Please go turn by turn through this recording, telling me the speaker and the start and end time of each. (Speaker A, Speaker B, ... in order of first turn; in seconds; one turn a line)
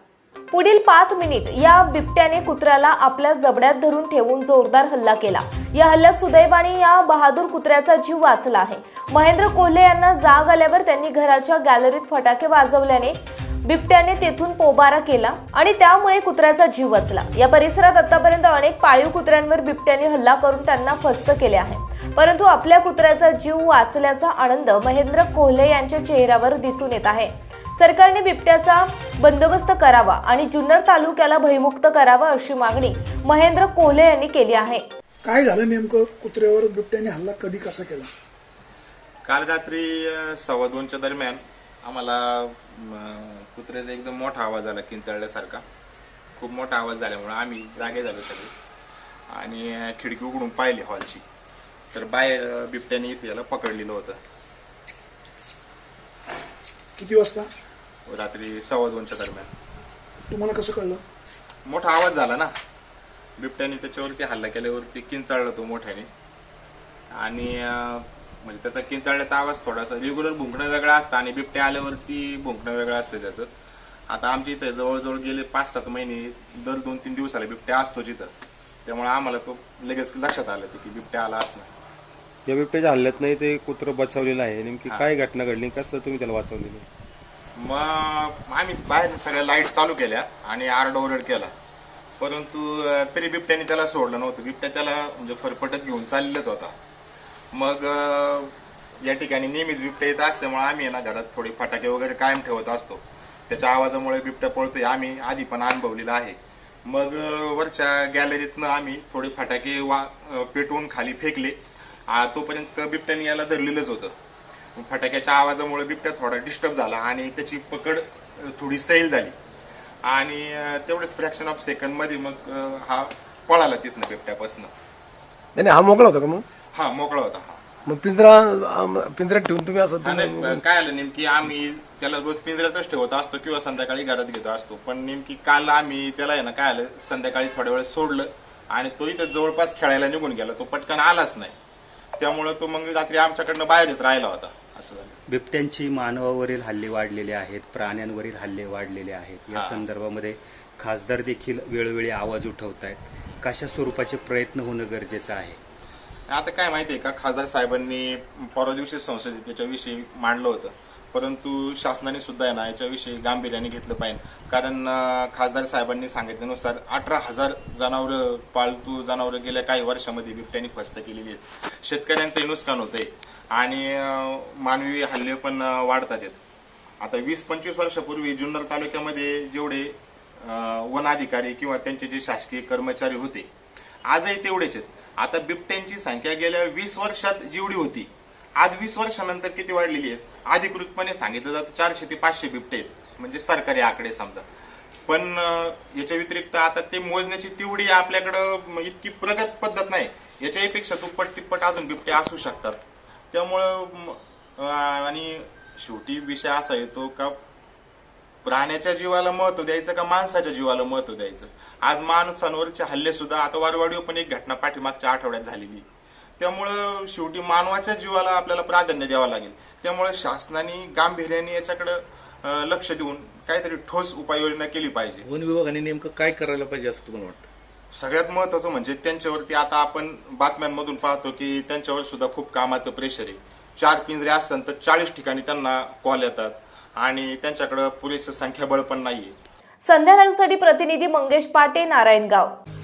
Speaker A: 0.5-34.8
Speaker B: 35.2-38.1
Speaker C: 39.2-45.6
Speaker C: 46.4-48.5
Speaker C: 49.3-51.2
Speaker C: 51.9-54.2
Speaker B: 57.0-57.5
Speaker C: 58.1-59.5
Speaker B: 60.3-61.0
Speaker C: 61.6-62.5
Speaker C: 63.4-66.1
Speaker C: 67.1-73.5
Speaker C: 74.1-78.3
Speaker C: 78.8-81.7
Speaker D: 82.5-86.8
Speaker C: 87.5-91.5
Speaker C: 92.2-96.7
Speaker C: 97.5-111.6
Speaker C: 112.1-114.1
Speaker C: 114.8-119.3
Speaker C: 120.0-124.7
Speaker E: 125.5-126.4
Speaker C: 126.7-127.6
Speaker E: 127.8-130.6
Speaker C: 130.0-141.5
Speaker C: 142.2-145.2
Speaker F: 145.3-155.6
Speaker C: 149.5-149.8
Speaker C: 156.3-176.4
Speaker C: 177.0-183.5
Speaker C: 184.1-194.4
Speaker C: 195.1-202.8
Speaker C: 203.3-207.3
Speaker C: 208.4-215.8
Speaker C: 216.4-225.2
Speaker G: 225.2-227.5
Speaker C: 227.9-239.3
Speaker A: 239.8-242.5